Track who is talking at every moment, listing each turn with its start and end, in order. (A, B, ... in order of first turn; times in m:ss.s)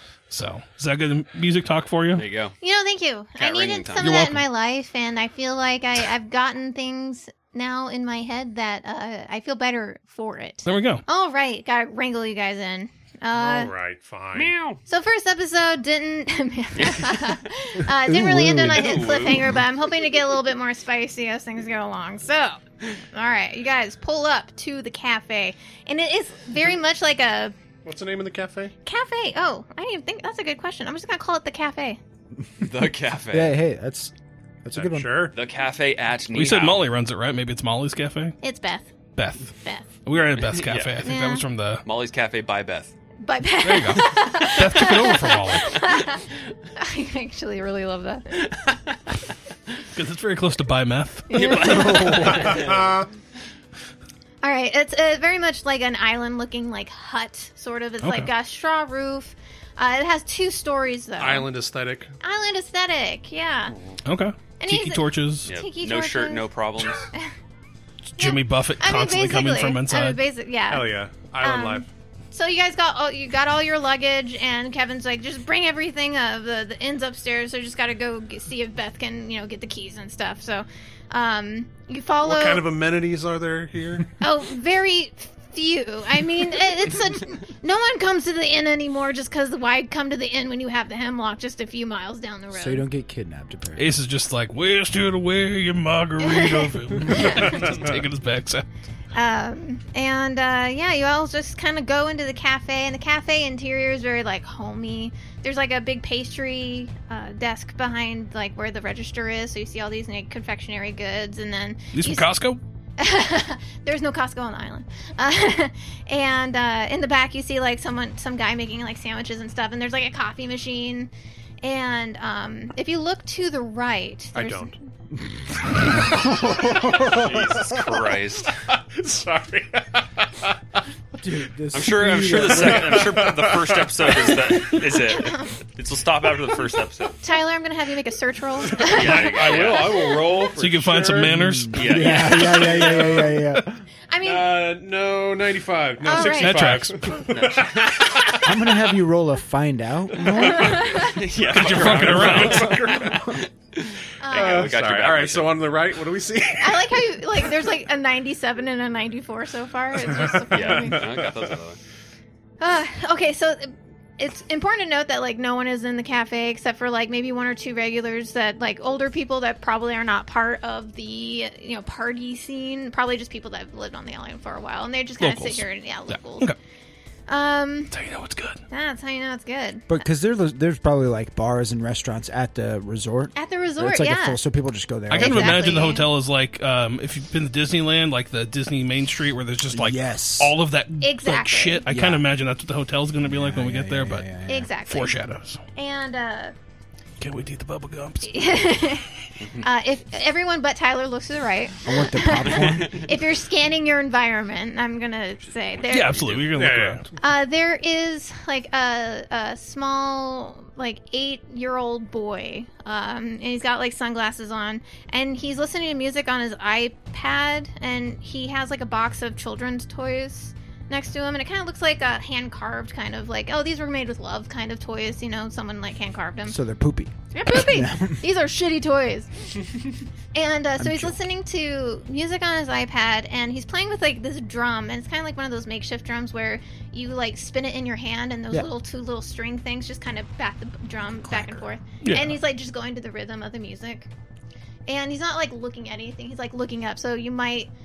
0:00.3-0:02.3 A
0:02.1-0:02.6 B
0:02.6-0:13.7 C
0:03.4-0:04.2 B
0:04.0-0:04.4 A
0:10.6-0:11.0 A
0:13.3-0:14.5 D
0:14.3-0:14.8 B
0:14.9-0:27.5 C
0:16.8-0:17.4 B
0:17.8-0:19.5 E
0:18.6-0:19.6 B
0:27.8-0:28.7 D
0:28.8-0:32.0 C
0:32.6-0:33.6 B
0:33.3-0:35.3 E
0:34.7-0:35.4 D
0:35.3-0:36.9 B
0:36.3-0:38.4 A
0:38.4-0:38.9 C
0:39.2-0:41.8 A
0:39.6-0:39.9 C
0:40.4-0:41.1 B
0:41.0-0:41.5 C
0:41.8-0:42.9 B
0:43.2-0:48.5 C
0:43.6-0:45.9 A
0:50.0-0:52.3 A
0:51.3-0:52.5 C
0:51.3-0:52.9 B
0:52.3-0:53.1 D
0:54.4-1:01.5 C
0:58.0-0:58.3 A
1:01.2-1:02.1 D
1:02.2-1:03.8 C
1:03.7-1:04.0 D
1:04.0-1:05.5 A
1:04.6-1:06.5 C
1:05.5-1:07.1 B
1:08.2-1:10.2 A
1:08.2-1:22.7 C
1:10.7-1:11.9 D
1:22.2-1:24.1 D
1:24.2-1:32.8 C
1:32.5-1:34.0 E
1:33.8-1:38.6 A
1:36.2-1:37.7 C
1:37.7-1:38.0 D
1:39.1-1:52.3 C
1:51.9-1:52.6 A
1:53.0-2:01.1 C
2:01.6-2:04.7 C
2:04.4-2:04.8 D
2:06.0-2:06.3 E
2:06.2-2:10.6 D
2:06.7-2:08.5 B
2:11.2-2:13.2 E
2:11.7-2:17.2 B
2:12.4-2:14.9 D
2:15.1-2:15.5 C
2:17.2-2:20.3 C
2:18.7-2:21.5 D
2:18.9-2:20.1 B
2:20.5-2:22.1 A
2:21.2-2:23.8 E
2:21.7-2:23.0 B
2:22.0-2:23.4 D
2:24.1-2:24.6 C
2:24.2-2:28.9 D
2:26.0-2:26.6 C
2:26.2-2:27.1 A
2:27.1-2:28.4 B
2:28.4-2:31.0 E
2:30.4-2:31.2 C
2:30.9-2:35.7 B
2:31.5-2:32.8 A
2:31.5-2:33.4 D
2:34.2-2:34.8 C
2:34.3-2:37.5 D
2:36.6-2:41.3 C
2:40.0-2:41.6 D
2:40.5-2:41.8 B
2:42.6-2:56.5 C
2:55.2-2:56.6 A
2:57.3-2:58.0 C
2:57.9-2:58.6 A
2:58.7-3:00.0 C
2:59.9-3:05.9 E
3:03.4-3:04.4 C
3:05.1-3:14.3 A
3:05.1-3:06.1 C
3:09.7-3:10.6 E
3:11.0-3:11.9 C
3:11.9-3:12.3 E
3:13.2-3:14.7 E
3:14.5-3:15.2 C
3:14.8-3:15.6 A
3:15.8-3:16.5 C
3:17.2-3:18.3 A
3:18.2-3:26.3 C
3:19.4-3:19.7 B
3:21.8-3:23.1 E
3:22.5-3:23.0 B
3:25.8-3:26.5 B
3:25.9-3:27.0 A
3:26.5-3:27.1 D
3:27.2-3:46.6 C
3:46.5-3:48.2 E
3:47.3-3:49.5 C
3:50.3-4:04.1 C
3:50.8-3:51.2 E
4:01.3-4:01.7 E
4:02.0-4:02.4 A
4:04.9-4:07.7 C